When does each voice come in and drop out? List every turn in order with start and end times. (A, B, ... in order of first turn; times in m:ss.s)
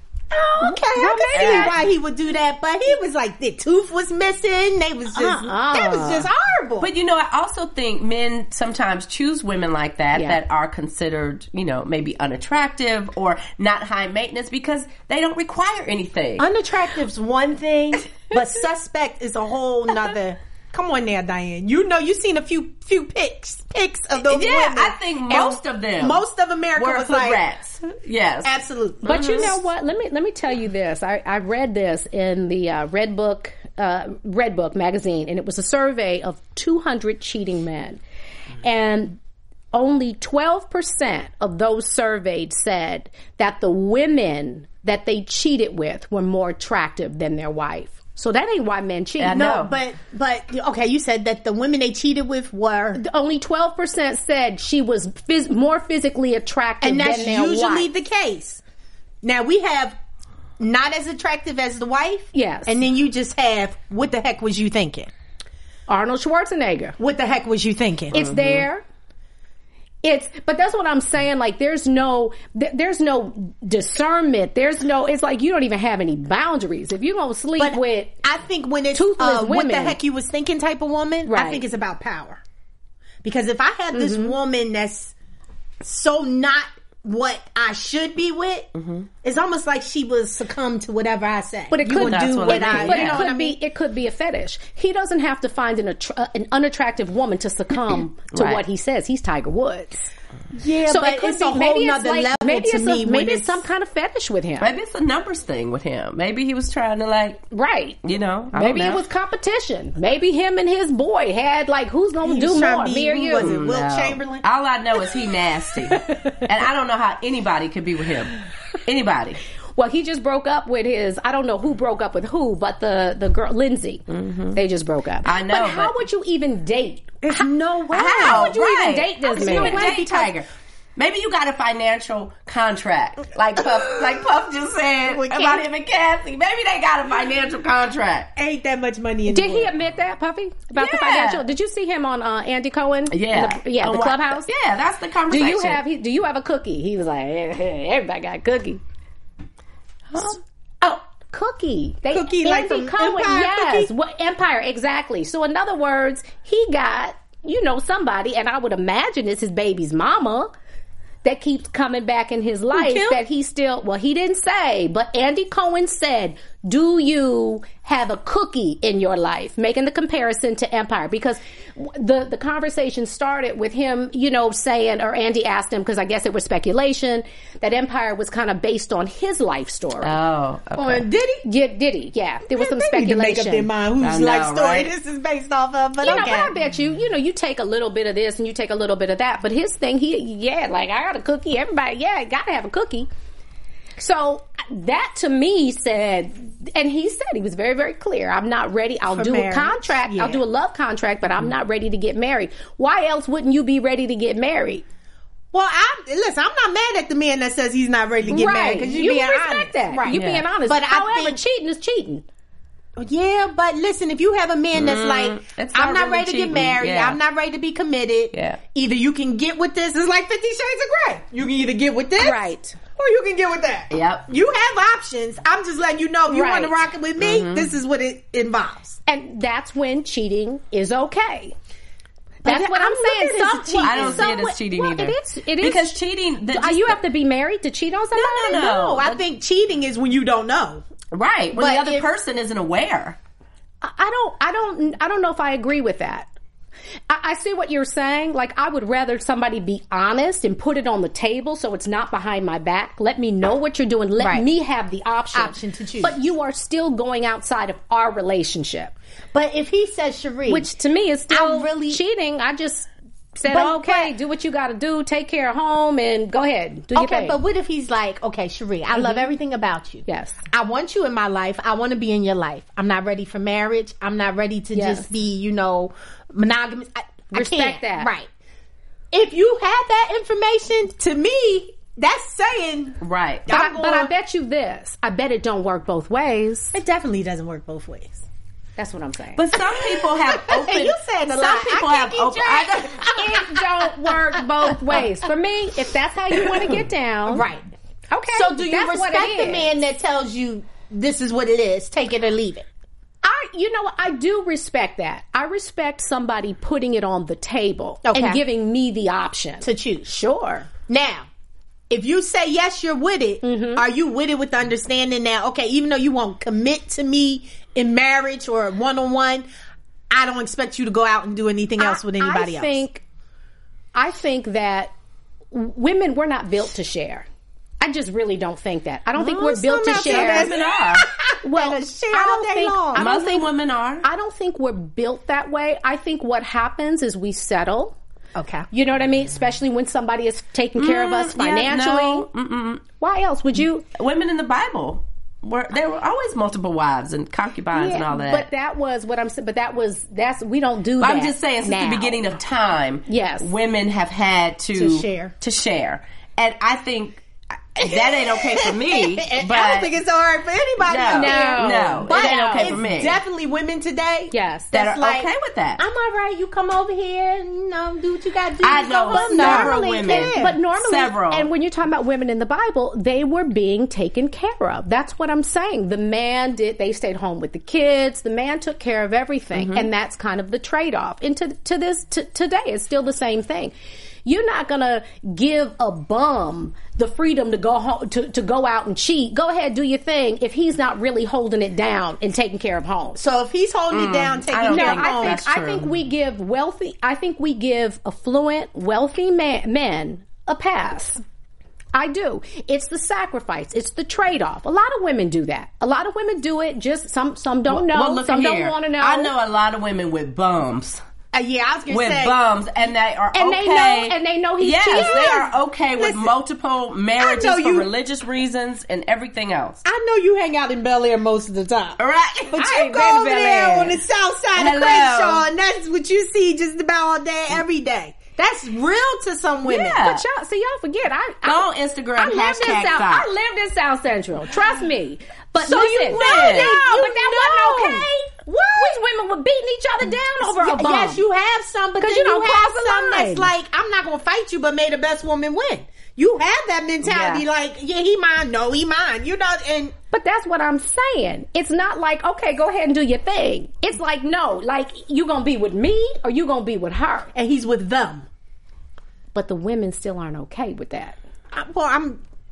0:00.3-0:06.9 A
0:00.6-0:01.7 B
0:01.3-0:01.8 C
0:05.1-0:06.3 B
0:06.8-0:16.4 C
0:10.1-0:10.4 B
0:16.4-0:27.4 A
0:24.2-0:26.2 C
0:26.8-0:28.5 C
0:28.4-0:29.6 A
0:29.0-0:38.0 B
0:29.0-0:29.5 C
0:38.6-0:39.2 B
0:39.7-0:49.6 B
0:49.2-0:49.7 C
0:49.3-0:53.0 A
0:52.9-0:57.9 B
0:56.8-0:58.6 A
0:59.2-1:00.0 A
1:00.6-1:05.1 A
1:02.3-1:02.8 B
1:05.9-1:07.0 B
1:07.0-1:08.2 A
1:08.1-1:08.8 B
1:08.2-1:08.6 C
1:10.0-1:18.2 B
1:17.6-1:22.4 A
1:18.9-1:20.0 B
1:21.2-1:21.6 B
1:23.2-1:25.1 A
1:23.9-1:24.4 B
1:25.8-1:28.7 A
1:28.8-1:29.0 C
1:29.2-1:33.6 A
1:31.7-1:40.1 B
1:31.9-1:33.3 C
1:38.3-1:38.6 C
1:40.5-1:43.6 A
1:40.9-1:44.7 B
1:44.6-1:47.4 C
1:47.5-1:48.0 B
1:48.0-1:49.0 C
1:48.5-1:53.6 B
1:52.2-1:54.4 A
1:53.4-1:59.4 C
1:59.8-2:07.5 B
2:04.1-2:04.6 C
2:05.2-2:06.0 C
2:07.2-2:08.6 A
2:07.9-2:18.3 C
2:08.1-2:10.0 B
2:09.3-2:10.4 A
2:15.1-2:15.6 A
2:18.4-2:19.7 A
2:19.3-2:24.5 B
2:20.8-2:21.4 C
2:23.1-2:25.8 C
2:25.3-2:28.8 B
2:30.2-2:40.5 B
2:32.1-2:33.9 A
2:41.2-3:00.2 B
2:42.7-2:43.2 A
3:00.0-3:01.1 C
3:00.8-3:01.4 A
3:01.4-3:03.7 B
3:02.6-3:06.5 A
3:04.0-3:04.9 C
3:06.0-3:13.1 B
3:14.0-3:24.8 B
3:19.1-3:20.4 A
3:25.5-3:31.4 A
3:28.3-3:32.2 B
3:30.1-3:30.4 C
3:33.0-3:49.0 A
3:34.7-3:37.2 C
3:38.3-3:38.6 C
3:42.2-3:42.8 B
3:43.9-3:44.3 C
3:46.3-3:46.8 B
3:47.2-3:47.7 C
3:49.0-3:51.5 B
3:52.4-3:54.3 A
3:52.4-3:56.0 B
3:53.8-3:57.0 C
3:56.5-3:58.6 B
3:58.1-3:59.2 C
3:58.3-4:00.8 A
4:01.1-4:03.2 C
4:01.6-4:02.0 A
4:03.8-4:06.3 B
4:07.1-4:18.9 B
4:14.2-4:14.5 A
4:15.3-4:16.2 A
4:19.3-4:20.7 A
4:20.5-4:27.4 B
4:21.3-4:22.0 A
4:23.5-4:24.1 A
4:26.9-4:38.3 A
4:28.9-4:29.3 B
4:30.0-4:30.4 B
4:34.7-4:35.1 B
4:37.3-4:38.1 B
4:39.1-4:44.1 A
4:43.0-4:43.5 C
4:43.5-4:46.7 B
4:46.7-4:48.2 A
4:48.8-4:49.4 B
4:49.4-4:53.1 C
4:49.8-4:55.0 A
4:53.1-4:57.4 B
4:57.3-4:57.7 A
4:58.1-4:59.8 B
4:58.3-5:02.6 A
5:03.2-5:10.7 B
5:08.0-5:08.4 A
5:09.6-5:10.1 A
5:10.9-5:11.3 A
5:11.9-5:19.4 A
5:13.4-5:13.8 B
5:20.1-5:22.8 A
5:21.8-5:23.0 B
5:23.9-5:24.9 B
5:25.5-5:27.2 B
5:27.8-5:30.5 B
5:29.2-5:33.0 A
5:29.9-5:31.0 C
5:31.4-5:33.5 B
5:32.9-5:34.0 C
5:34.0-5:37.9 B
5:38.4-5:38.7 A
5:38.7-5:42.3 B
5:40.8-5:42.8 C
5:43.0-5:43.8 B
5:44.0-5:48.5 C
5:47.7-5:52.3 B
5:51.0-5:57.2 C
5:53.1-5:53.5 B
5:54.7-5:55.3 A
5:57.8-5:59.9 C
5:57.8-6:10.6 A
6:00.8-6:03.2 C
6:01.1-6:02.8 B
6:04.3-6:04.7 B
6:04.7-6:05.8 C
6:08.6-6:11.5 C
6:09.1-6:23.7 B
6:19.6-6:19.9 C
6:24.2-6:33.2 B
6:33.2-6:35.4 A
6:33.9-6:35.9 C
6:34.7-6:41.2 B
6:41.9-6:49.3 B
6:47.7-6:51.0 C
6:51.3-6:52.4 A
6:51.9-6:59.8 C
6:53.3-6:55.5 B
6:55.0-6:56.3 A
6:57.2-6:57.9 A
6:59.8-7:02.0 A
7:02.0-7:02.7 C
7:02.5-7:10.1 A
7:02.6-7:04.0 B
7:04.6-7:05.4 C
7:09.7-7:10.2 C
7:09.9-7:21.2 B
7:11.4-7:13.3 C
7:15.6-7:19.0 A
7:16.0-7:16.7 C
7:20.4-7:29.9 A
7:22.0-7:23.5 B
7:27.0-7:27.4 C
7:30.1-7:37.3 B
7:37.3-7:38.3 A
7:39.3-7:41.2 B
7:41.5-7:42.2 A